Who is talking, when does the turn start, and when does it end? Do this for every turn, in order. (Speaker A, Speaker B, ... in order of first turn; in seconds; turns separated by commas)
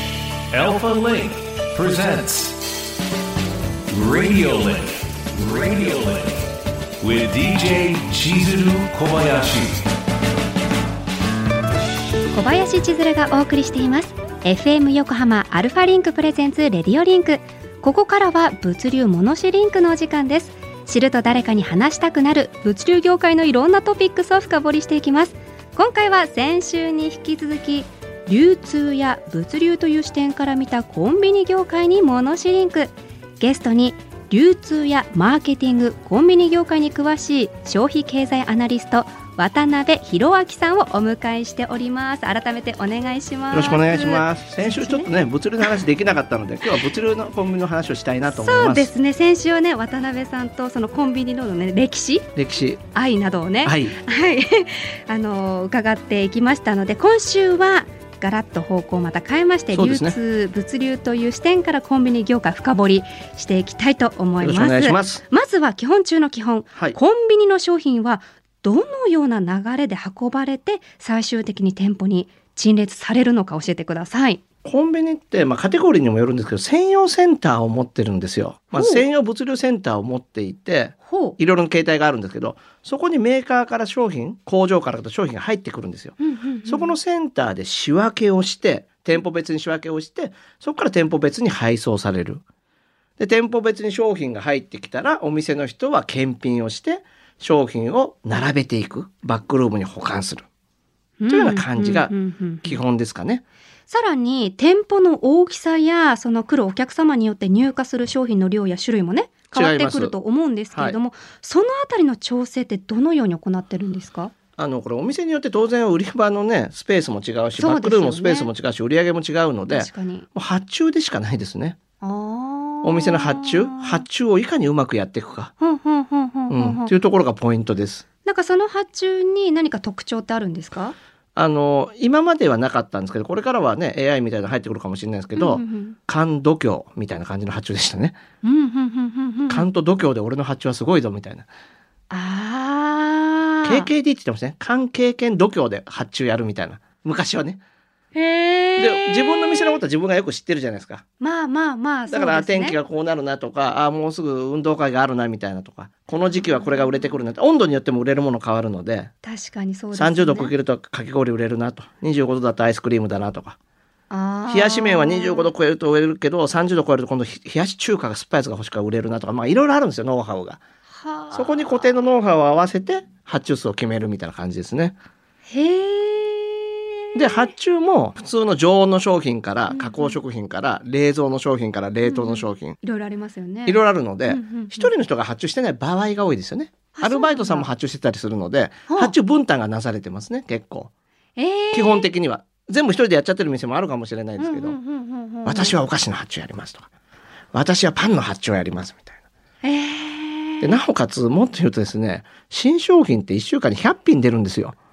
Speaker A: 0.5-2.5, Speaker A: 3.9-6.4, Speaker A: 7.0-9.8, Speaker B: 12.3-45.8, Speaker C: 43.5-48.9, Speaker B: 48.3-52.3, Speaker C: 52.4-52.8, Speaker B: 52.9-74.4, Speaker C: 53.6-54.0, Speaker C: 59.7-60.2, Speaker C: 64.4-65.2, Speaker C: 74.6-92.4, Speaker B: 78.7-79.0, Speaker B: 81.0-81.4, Speaker B: 86.2-86.9, Speaker C: 93.2-100.4, Speaker B: 101.2-102.8, Speaker C: 101.3-103.4, Speaker B: 103.9-114.3, Speaker C: 109.5-110.1, Speaker C: 114.6-121.8, Speaker B: 117.6-118.5, Speaker B: 119.7-120.3, Speaker B: 122.0-124.0, Speaker C: 122.8-125.5, Speaker B: 125.6-126.9, Speaker C: 126.5-128.0, Speaker B: 128.2-130.9, Speaker C: 131.3-138.2, Speaker B: 135.3-136.0, Speaker B: 138.4-139.7, Speaker C: 139.5-141.5, Speaker B: 142.1-143.9, Speaker C: 143.7-147.6, Speaker B: 148.2-149.8, Speaker C: 148.8-151.0, Speaker B: 151.2-152.8, Speaker C: 152.1-159.1, Speaker B: 156.3-157.1, Speaker B: 159.2-160.5, Speaker C: 159.9-163.6, Speaker B: 164.1-165.5, Speaker C: 164.5-170.6, Speaker B: 170.9-171.8, Speaker C: 171.3-174.9, Speaker B: 175.5-177.5, Speaker C: 177.2-182.8, Speaker B: 179.7-180.2, Speaker B: 182.0-184.9, Speaker C: 183.7-190.9, Speaker B: 186.9-187.7, Speaker B: 188.9-189.1, Speaker B: 191.4-192.1, Speaker C: 191.7-194.8, Speaker B: 194.4-195.8, Speaker C: 195.4-196.9, Speaker C: 197.5-199.2, Speaker B: 199.6-200.8, Speaker C: 200.6-204.8